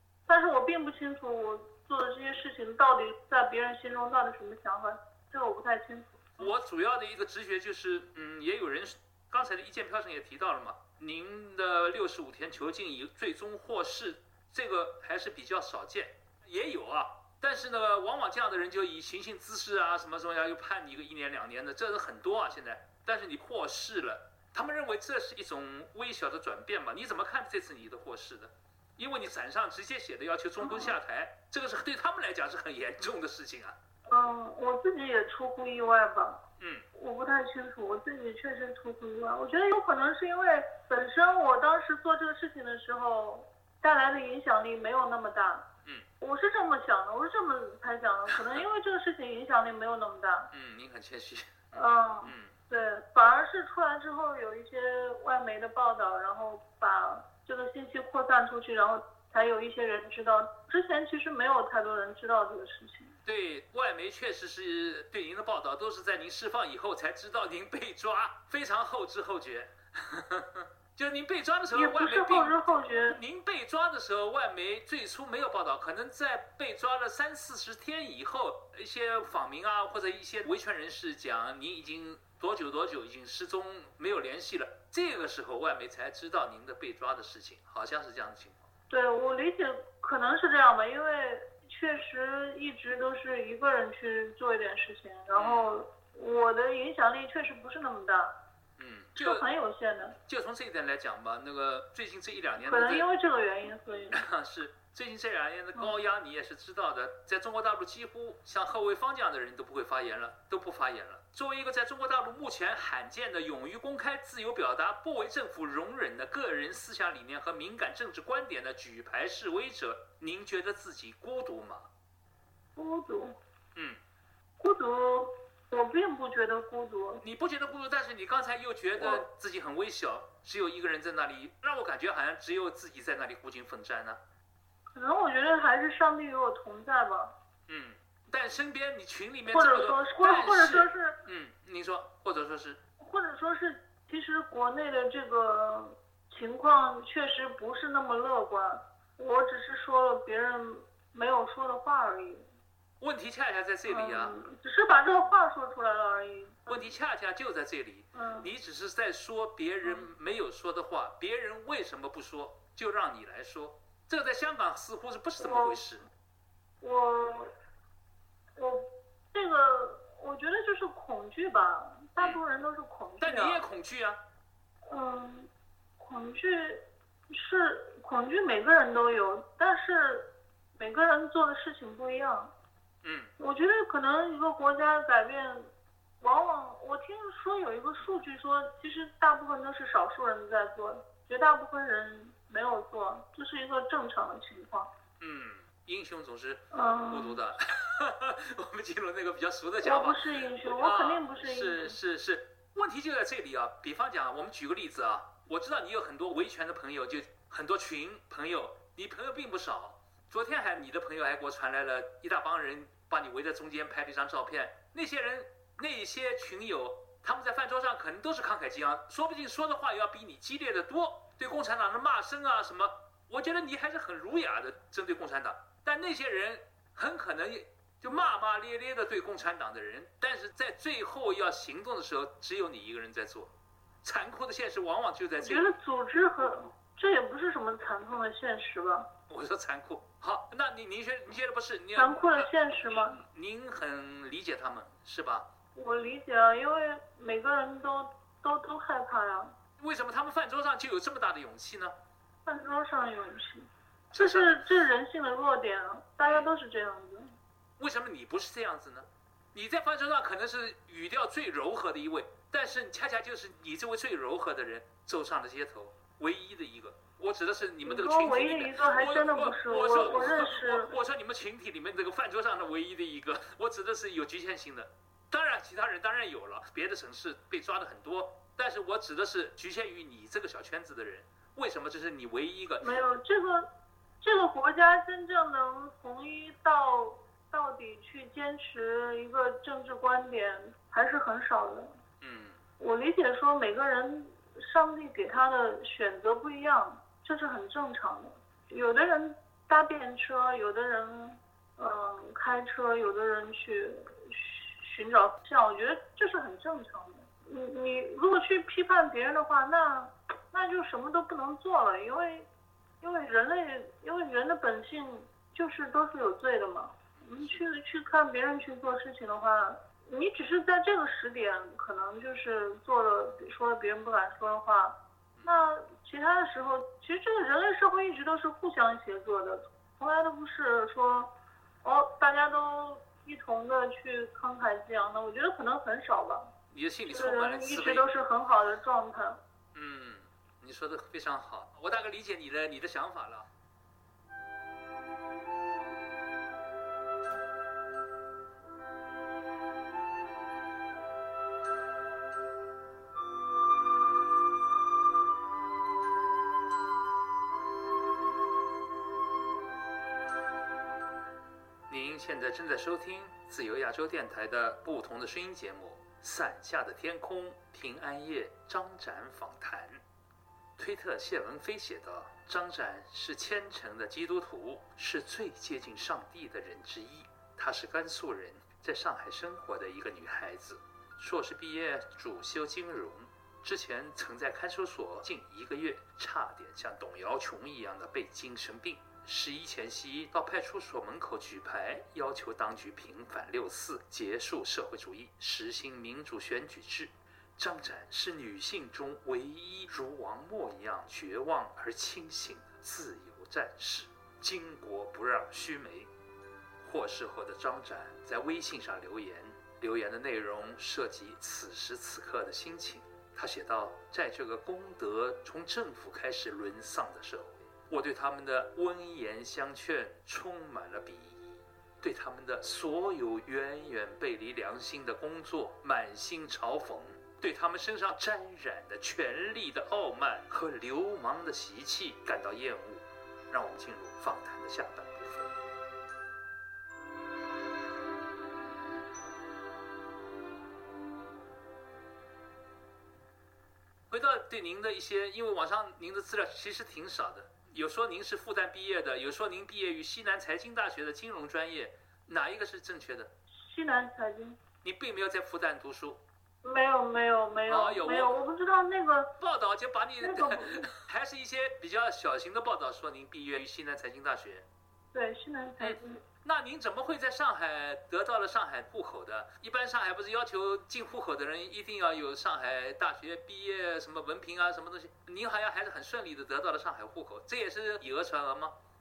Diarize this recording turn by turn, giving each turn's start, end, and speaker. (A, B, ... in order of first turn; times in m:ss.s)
0:00.3-0:06.5 A
0:06.4-0:33.8 B
0:30.6-0:31.0 A
0:34.1-0:36.4 A
0:36.6-0:36.8 B
0:36.9-0:45.7 A
0:46.2-0:50.5 A
0:48.3-0:48.6 B
0:50.5-0:52.6 B
0:51.7-1:03.1 A
1:03.2-1:28.6 B
1:11.7-1:13.2 A
1:28.9-1:38.3 A
1:35.3-1:35.7 B
1:38.8-1:39.4 B
1:39.2-1:40.2 A
1:40.2-1:43.1 B
1:42.6-1:44.2 A
1:44.1-2:01.9 B
2:02.8-2:03.4 A
2:03.7-2:04.0 B
2:04.6-2:07.2 A
2:07.2-2:14.2 B
2:09.0-2:09.2 A
2:14.9-2:17.3 A
2:17.7-2:22.8 B
2:19.5-2:21.2 A
2:23.0-2:32.4 A
2:33.0-2:34.3 B
2:33.9-2:36.9 A
2:36.7-2:46.0 B
2:38.1-2:38.5 A
2:39.8-2:40.1 A
2:45.4-2:45.8 A
2:46.8-2:47.5 A
2:48.6-2:53.6 A
2:53.2-2:54.2 B
2:54.9-3:02.5 A
3:03.0-3:03.3 B
3:03.4-3:05.7 A
3:06.2-3:14.9 A
3:15.2-3:53.5 B
3:16.7-3:17.4 A
3:19.8-3:22.0 A
3:54.0-3:55.7 B
3:55.4-3:59.1 A
3:59.3-4:05.5 B
4:02.0-4:03.2 A
4:05.8-4:09.5 A
4:09.8-4:11.9 B
4:12.4-4:17.3 A
4:14.1-4:14.6 B
4:16.2-4:16.5 B
4:17.8-4:42.8 B
4:27.8-4:30.9 A
4:42.8-4:43.7 A
4:44.2-4:51.9 A
4:52.2-4:52.6 B
4:52.8-5:12.5 A
5:13.0-5:31.3 A
5:17.4-5:17.6 B
5:31.8-5:36.5 A
5:36.7-5:38.1 B
5:37.1-5:39.4 A
5:39.7-5:43.5 B
6:01.9-6:10.0 B
6:10.8-6:46.1 B
6:46.8-7:15.5 B
7:24.1-7:33.3 B
7:33.5-7:34.6 A
7:34.8-7:36.2 B
7:36.6-7:39.3 A
7:37.7-7:38.3 B
7:39.4-7:44.6 B
7:40.2-7:40.9 A
7:45.1-7:46.2 A
7:45.8-7:58.7 B